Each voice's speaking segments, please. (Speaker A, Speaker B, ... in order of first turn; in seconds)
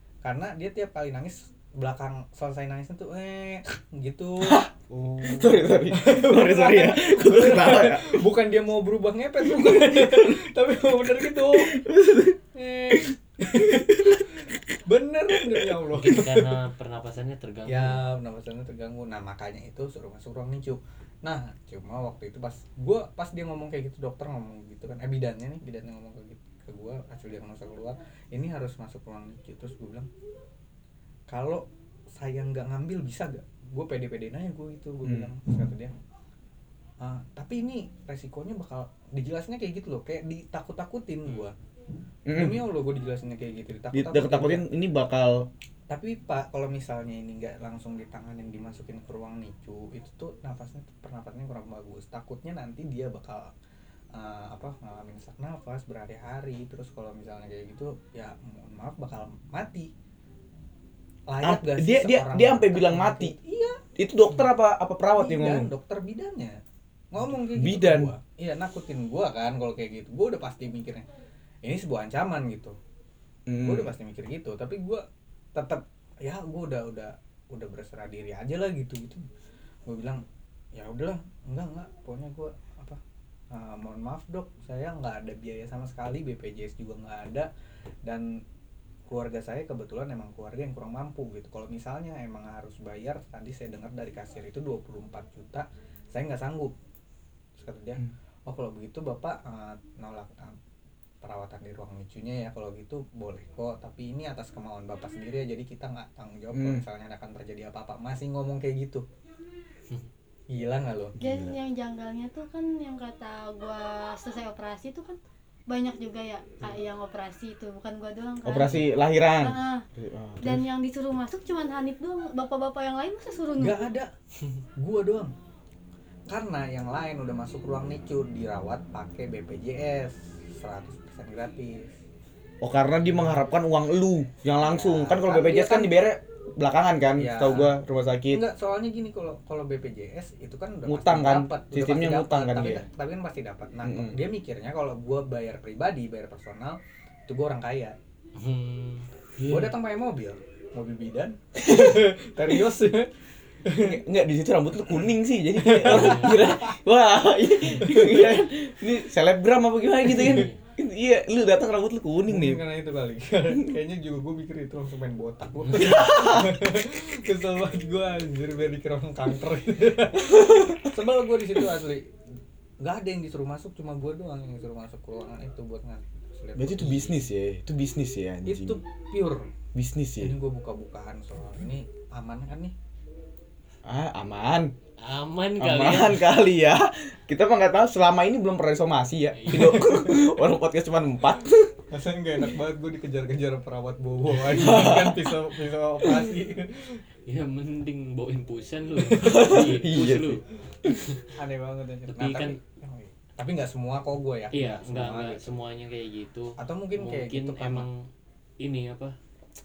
Speaker A: 0.2-11.8, 12.5-16.4, 17.7-30.1, 31.3-35.9, 37.0-41.5, 42.3-44.6, 45.9-53.5, 54.1-59.9, 61.3-63.8, 65.1-66.6, 67.1-71.0, 71.6-72.8, 73.6-75.0, 75.5-79.2, 79.9-83.0, 83.5-87.5, 88.0-88.4, 89.1-96.7, 97.6-100.6, 101.2-109.0, 110.5-111.2, 123.6-124.1, 124.8-125.3, 126.3-131.9, 134.6-135.9, 137.2-137.7, 138.3-147.9, 149.5-153.1, 153.6-154.0, 155.6-156.8, 157.6-158.4, 162.3-172.1, 172.8-177.2, 178.4-179.5, 180.2-182.7, 189.5-190.1, 191.9-197.0, 201.3-205.5, 206.6-207.9
Speaker B: 4.4-4.7, 5.2-8.2, 9.6-10.4, 11.2-12.4, 35.0-35.3, 42.2-42.6, 43.9-45.5, 61.4-63.3, 64.0-65.7, 67.4-68.1, 73.5-73.9, 106.5-106.8, 111.2-111.5, 118.4-120.7, 132.6-138.4, 140.9-142.8, 143.8-144.2, 149.4-149.7, 151.7-152.0, 153.7-162.6, 165.9-166.6, 170.3-170.8, 176.6-178.8, 179.7-180.3, 183.8-184.7, 185.6-191.8, 194.4-195.4, 196.0-196.3, 199.2-201.0
Speaker C: 15.9-18.0, 148.4-149.1, 155.9-156.4, 160.2-160.6, 176.8-177.1, 185.0-186.3, 189.3-189.9, 197.2-201.3, 202.1-202.6, 204.5-208.1, 208.6-209.2
Speaker D: 111.2-119.8, 120.4-123.9